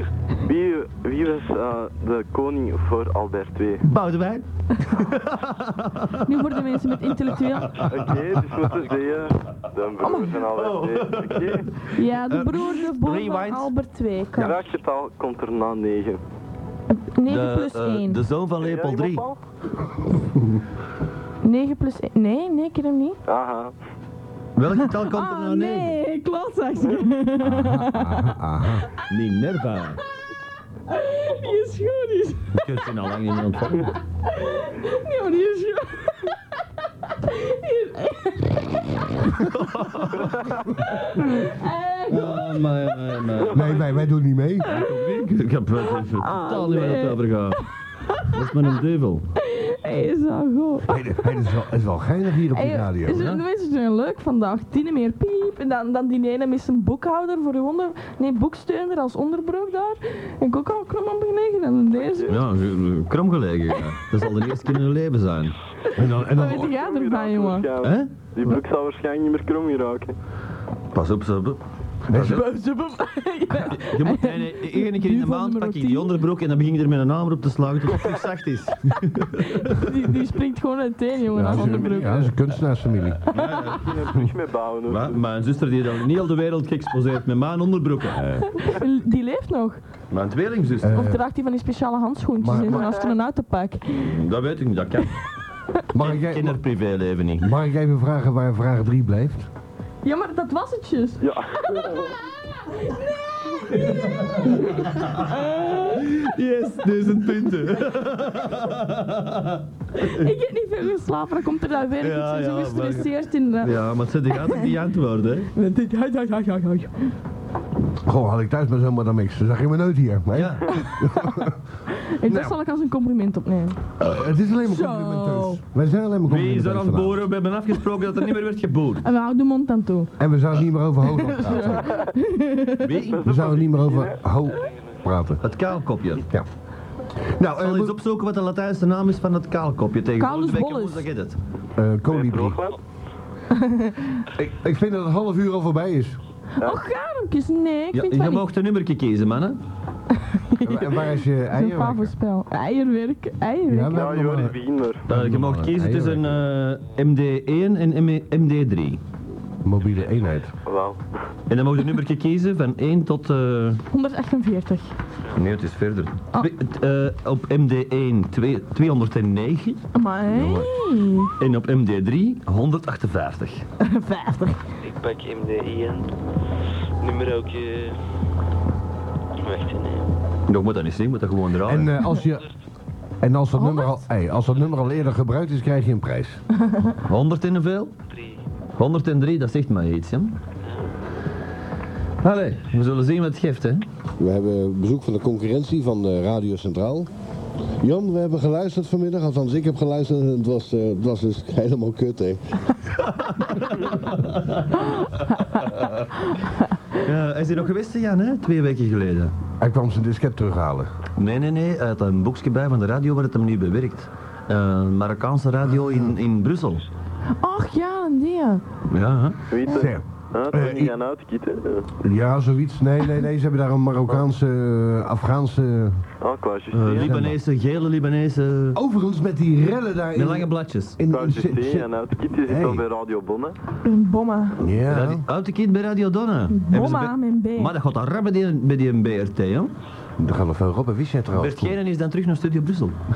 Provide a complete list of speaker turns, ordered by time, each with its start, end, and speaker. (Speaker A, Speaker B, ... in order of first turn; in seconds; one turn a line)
Speaker A: 0.4-3.9
Speaker B: 3.8-8.9
Speaker C: 6.2-7.9
Speaker A: 7.8-11.7
Speaker C: 10.0-10.4
Speaker B: 10.5-13.7
Speaker C: 11.9-14.6
Speaker A: 14.4-16.2
Speaker C: 16.9-18.2
Speaker B: 17.3-19.3
Speaker A: 18.6-19.4
Speaker C: 21.4-23.2
Speaker A: 23.3-23.7
Speaker B: 24.6-26.0
Speaker C: 24.8-28.4
Speaker D: 27.4-28.9
Speaker B: 29.1-30.0
Speaker C: 30.9-32.7
Speaker B: 32.5-34.0
Speaker C: 33.9-36.4
Speaker C: 37.1-39.6
Speaker B: 39.4-40.6
Speaker C: 40.8-42.7
Speaker B: 42.1-43.9
Speaker D: 43.5-44.7
Speaker C: 44.6-45.3
Speaker B: 44.6-47.6
Speaker C: 45.8-47.3
Speaker C: 48.0-48.3
Speaker B: 48.3-49.3
Speaker C: 49.4-51.5
Speaker D: 50.9-53.3
Speaker C: 52.5-62.4
Speaker B: 53.1-53.4
Speaker A: 62.0-62.3
Speaker B: 62.3-65.6
Speaker D: 66.0-66.7
Speaker C: 66.3-67.7
Speaker A: 66.4-70.2
Speaker B: 67.8-68.5
Speaker B: 70.9-72.4
Speaker D: 72.1-72.5
Speaker C: 72.1-76.1
Speaker B: 73.7-79.9
Speaker C: 79.4-82.3
Speaker D: 81.3-83.2
Speaker B: 83.3-84.2
Speaker C: 83.3-83.7
Speaker A: 83.7-85.2
Speaker B: 84.9-88.5
Speaker D: 88.2-88.4
Speaker C: 88.5-89.8
Speaker B: 90.1-91.1
Speaker D: 90.8-91.2
Speaker C: 90.9-94.1
Speaker D: 92.4-93.0
Speaker B: 93.9-95.2
Speaker D: 95.9-96.6
Speaker B: 95.9-97.5
Speaker D: 97.4-99.5
Speaker C: 100.0-106.2
Speaker A: 101.2-102.1
Speaker B: 103.7-110.2
Speaker C: 110.0-113.8
Speaker B: 112.0-115.5
Speaker C: 115.5-116.9
Speaker D: 118.0-121.6
Speaker B: 120.3-120.7
Speaker C: 120.7-123.8
Speaker D: 122.2-122.6
Speaker B: 124.0-124.2
Speaker D: 124.0-127.3
Speaker C: 124.7-125.6
Speaker B: 126.3-129.1
Speaker C: 129.0-130.1
Speaker D: 130.2-132.0
Speaker C: 131.1-132.9
Speaker B: 132.8-133.3
Speaker A: 133.0-134.2
Speaker D: 133.2-135.4
Speaker E: 134.5-135.0
Speaker B: 135.4-136.2
Speaker D: 137.2-138.0
Speaker B: 137.6-141.4
Speaker C: 140.2-141.1
Speaker D: 141.8-142.6
Speaker A: 142.1-142.8
Speaker C: 143.5-144.2
Speaker D: 144.3-146.2
Speaker C: 146.6-148.4
Speaker B: 147.9-149.6
Speaker C: 150.2-154.0
Speaker D: 150.6-152.1
Speaker D: 153.7-156.4
Speaker A: 153.9-155.1
Speaker B: 155.1-159.0
Speaker D: 159.6-160.5
Speaker A: 160.6-161.0
Speaker B: 161.5-163.8
Speaker C: 163.9-165.0
Speaker B: 165.3-169.8
Speaker C: 169.9-171.3
Speaker D: 170.3-170.7
Speaker B: 171.4-173.7
Speaker C: 173.8-174.6
Speaker E: 174.8-176.1
Speaker E: 177.0-178.0
Speaker E: 179.4-180.1
Speaker B: 180.5-181.9
Speaker D: 181.7-182.5
Speaker E: 182.2-182.5
Speaker D: 183.2-186.4
Speaker C: 183.6-184.0
Speaker B: 187.0-187.9
Speaker E: 188.1-188.4
Speaker B: 188.8-190.4
Speaker E: 190.6-190.9
Speaker B: 192.2-193.9
Speaker D: 194.2-197.1
Speaker D: 197.8-202.6
Speaker B: 202.9-206.3
Speaker B: 206.9-209.3
Speaker D: 209.6-210.9
Speaker B: 211.2-216.9
Speaker C: 217.4-218.6
Speaker B: 218.9-219.4
Speaker A: 219.5-221.9
Speaker D: 219.7-220.9
Speaker D: 222.0-226.0
Speaker A: 226.2-227.2
Speaker B: 226.7-228.8
Speaker D: 226.9-227.4
Speaker D: 228.7-231.9
Speaker B: 230.2-231.0
Speaker A: 231.1-233.6
Speaker D: 232.4-232.8
Speaker C: 233.8-234.6
Speaker D: 234.6-235.2
Speaker B: 234.9-239.7
Speaker C: 236.5-237.7
Speaker D: 240.2-241.8
Speaker B: 241.3-243.0